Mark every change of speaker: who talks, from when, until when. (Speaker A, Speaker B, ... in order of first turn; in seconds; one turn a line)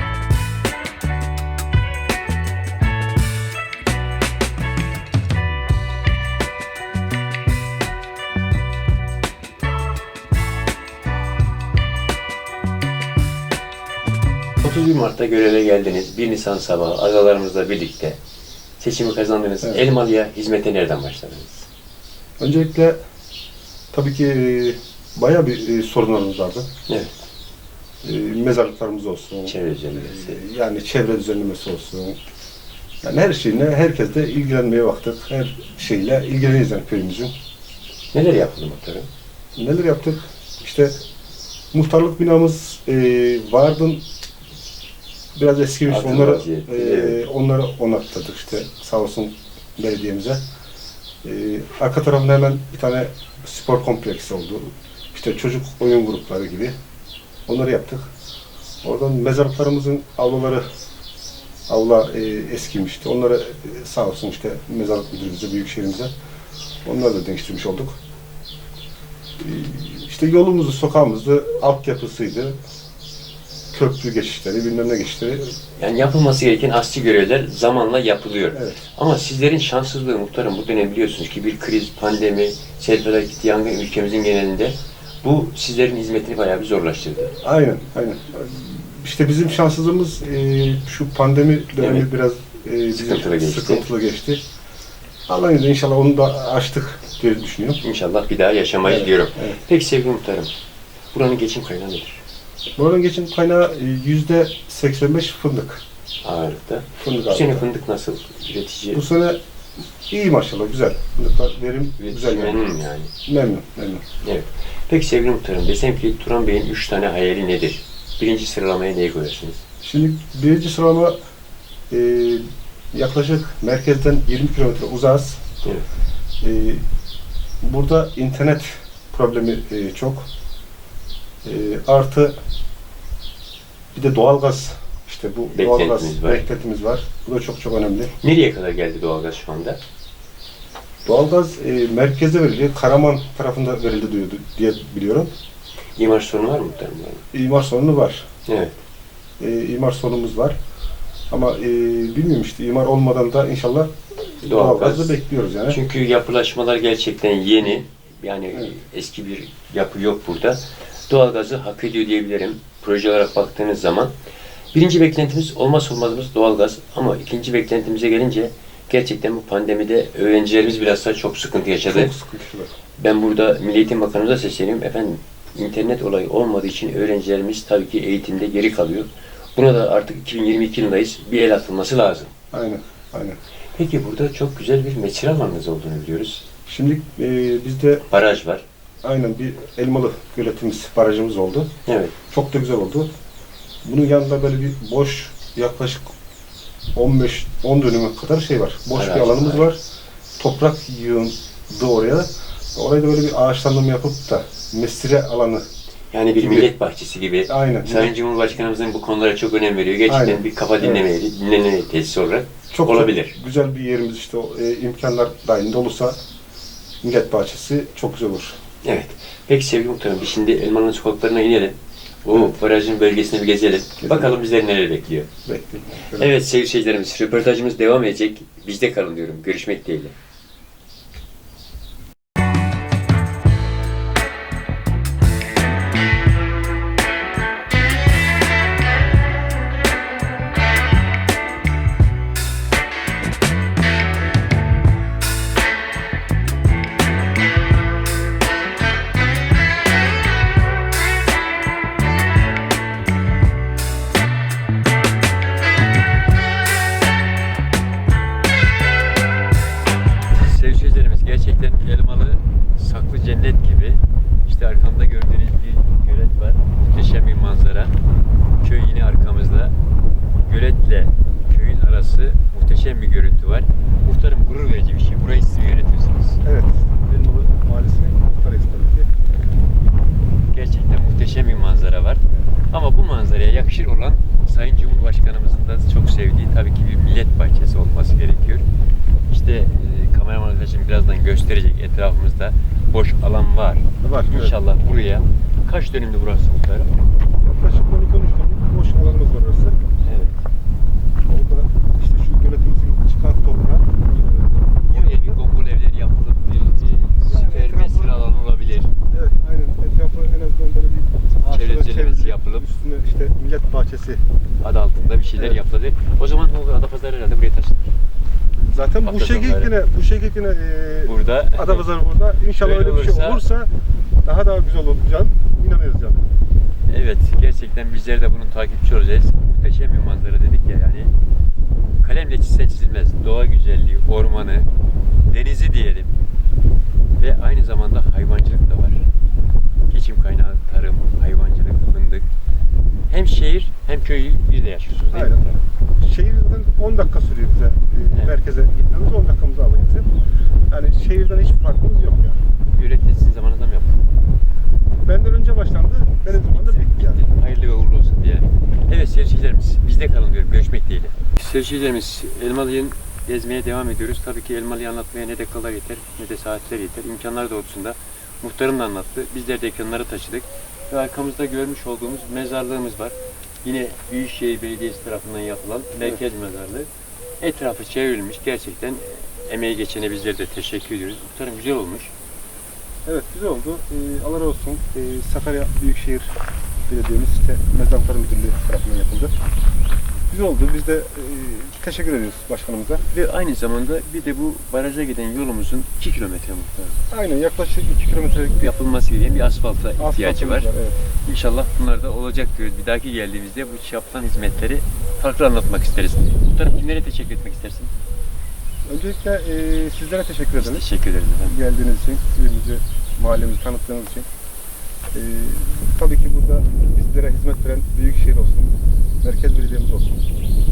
Speaker A: 14.6-18.2
Speaker A: 18.8-21.7
Speaker B: 22.4-23.0
Speaker B: 23.9-26.7
Speaker A: 26.9-27.1
Speaker B: 28.0-32.2
Speaker A: 29.4-30.4
Speaker B: 33.0-37.3
Speaker A: 38.1-39.1
Speaker B: 39.6-41.0
Speaker B: 41.7-44.0
Speaker B: 45.4-50.4
Speaker A: 45.9-47.2
Speaker B: 51.2-56.8
Speaker B: 57.5-58.1
Speaker B: 58.8-60.6
Speaker B: 61.7-66.1
Speaker B: 66.8-68.0
Speaker B: 69.4-72.6
Speaker B: 73.7-75.5
Speaker A: 75.8-87.3
Speaker B: 78.5-78.8
Speaker B: 87.4-94.4
Speaker A: 91.8-92.1
Speaker A: 92.9-93.9
Speaker B: 95.3-97.8
Speaker A: 97.8-100.5
Speaker B: 98.8-99.6
Speaker A: 101.1-102.2
Speaker B: 102.8-105.8
Speaker A: 106.2-109.0
Speaker B: 107.0-107.7
Speaker B: 108.9-109.4
Speaker B: 110.1-112.6
Speaker A: 112.0-113.1
Speaker B: 113.3-114.0
Speaker A: 114.2-119.6
Speaker B: 119.8-121.2
Speaker B: 121.9-125.5
Speaker B: 126.4-126.8
Speaker B: 127.6-130.3
Speaker B: 131.4-132.3
Speaker B: 133.9-138.1
Speaker A: 135.5-136.4
Speaker A: 138.1-139.8
Speaker B: 141.1-145.3
Speaker A: 146.0-147.2
Speaker B: 147.3-148.3
Speaker A: 148.5-148.8
Speaker B: 149.4-150.6
Speaker B: 151.3-155.8
Speaker A: 154.4-164.1
Speaker A: 164.7-172.1
Speaker B: 171.9-172.7
Speaker A: 173.0-182.3
Speaker B: 182.5-183.4
Speaker A: 183.8-186.4
Speaker B: 186.7-188.0
Speaker A: 188.1-188.6
Speaker B: 189.0-191.7
Speaker A: 191.9-192.2
Speaker B: 192.3-193.1
Speaker B: 193.8-196.1
Speaker B: 196.9-199.8
Speaker A: 198.9-199.7
Speaker B: 200.4-205.7
Speaker A: 206.1-213.3
Speaker B: 206.4-206.7
Speaker B: 207.5-208.1
Speaker B: 210.1-211.1
Speaker B: 212.7-216.2
Speaker B: 217.0-218.6
Speaker A: 218.8-225.3
Speaker B: 224.0-224.3
Speaker B: 225.4-226.3
Speaker A: 226.2-230.2
Speaker A: 260.3-267.9
Speaker A: 268.6-269.8
Speaker A: 270.4-276.4
Speaker B: 276.4-279.1
Speaker A: 280.5-288.6
Speaker A: 289.3-297.0
Speaker B: 294.0-294.6
Speaker B: 297.4-299.8
Speaker A: 300.0-300.4
Speaker B: 301.3-305.4
Speaker A: 304.1-308.9
Speaker B: 307.3-308.2
Speaker B: 309.1-314.2
Speaker A: 311.5-312.6
Speaker A: 314.6-317.9
Speaker B: 315.2-315.6
Speaker B: 318.6-323.7
Speaker A: 319.0-319.7
Speaker A: 321.0-321.9
Speaker A: 322.6-323.4
Speaker B: 324.2-326.3
Speaker A: 326.9-331.1
Speaker A: 332.0-334.7
Speaker A: 335.3-336.1
Speaker A: 337.2-339.0
Speaker A: 339.9-342.3
Speaker A: 343.1-345.6
Speaker B: 345.1-345.4
Speaker B: 346.0-350.1
Speaker B: 350.7-352.4
Speaker A: 352.7-354.0
Speaker B: 355.0-357.2
Speaker A: 356.3-382.1
Speaker B: 383.1-386.4
Speaker B: 386.9-389.3
Speaker B: 390.3-393.0
Speaker A: 393.1-397.0
Speaker B: 397.1-398.7
Speaker A: 398.6-400.7
Speaker B: 400.0-401.0
Speaker A: 401.2-407.9
Speaker B: 408.9-410.9
Speaker A: 410.6-411.6
Speaker B: 411.5-414.3
Speaker B: 415.1-420.2